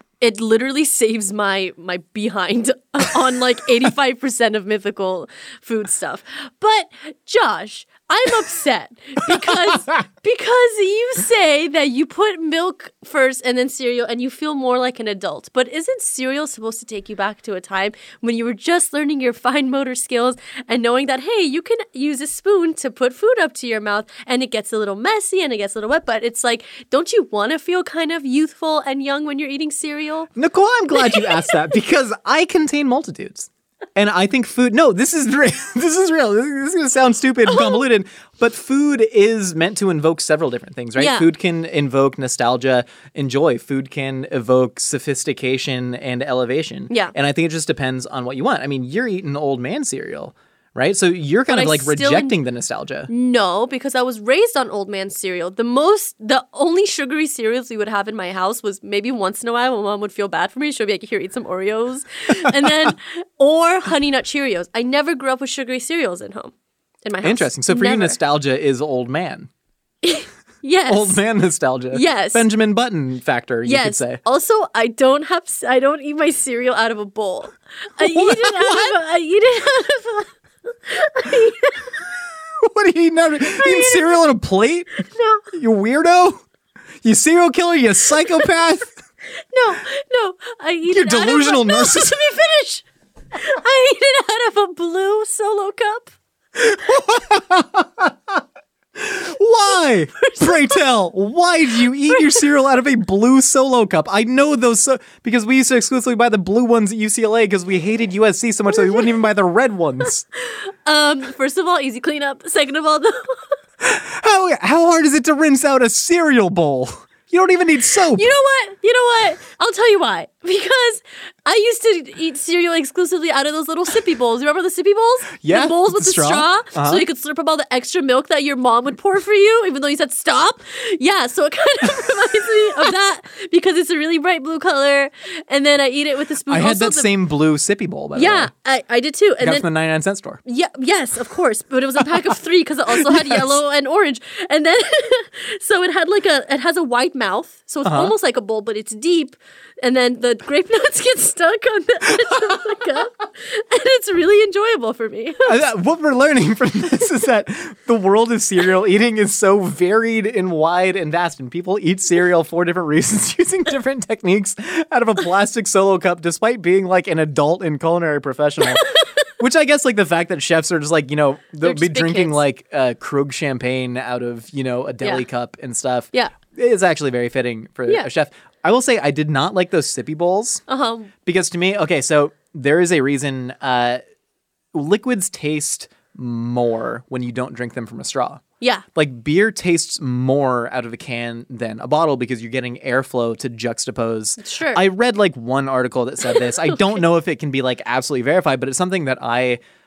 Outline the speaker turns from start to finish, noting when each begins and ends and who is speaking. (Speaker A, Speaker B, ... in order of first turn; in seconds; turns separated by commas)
Speaker A: 0.2-30.3, Speaker B: 9.3-9.7, Speaker B: 30.3-53.1, Speaker A: 30.9-31.4, Speaker A: 37.5-37.8, Speaker A: 41.0-41.3, Speaker A: 51.5-52.4, Speaker A: 53.1-66.5, Speaker B: 62.4-62.9, Speaker A: 67.0-68.2, Speaker B: 67.2-69.5, Speaker A: 70.0-71.2, Speaker B: 70.9-74.2, Speaker A: 71.9-72.4, Speaker A: 73.6-81.9, Speaker B: 78.0-79.0, Speaker B: 82.6-84.9, Speaker A: 83.4-84.2, Speaker A: 85.0-85.4, Speaker B: 85.5-86.4, Speaker B: 87.0-89.0, Speaker A: 89.5-96.1, Speaker B: 90.9-92.2, Speaker B: 96.5-98.4, Speaker B: 99.0-110.2, Speaker A: 100.2-100.8, Speaker A: 110.4-113.5, Speaker B: 113.8-118.3, Speaker A: 118.1-137.1, Speaker B: 125.4-127.0, Speaker B: 136.5-138.5, Speaker A: 138.1-139.7, Speaker B: 139.4-140.4, Speaker A: 140.4-155.5, Speaker B: 142.9-143.6, Speaker B: 147.8-148.1, Speaker B: 155.4-168.8, Speaker A: 168.7-169.2, Speaker B: 169.4-180.6, Speaker A: 171.6-172.4, Speaker A: 180.7-181.1, Speaker B: 181.2-184.0, Speaker B: 184.7-188.4, Speaker B: 188.9-199.6, Speaker A: 194.4-194.8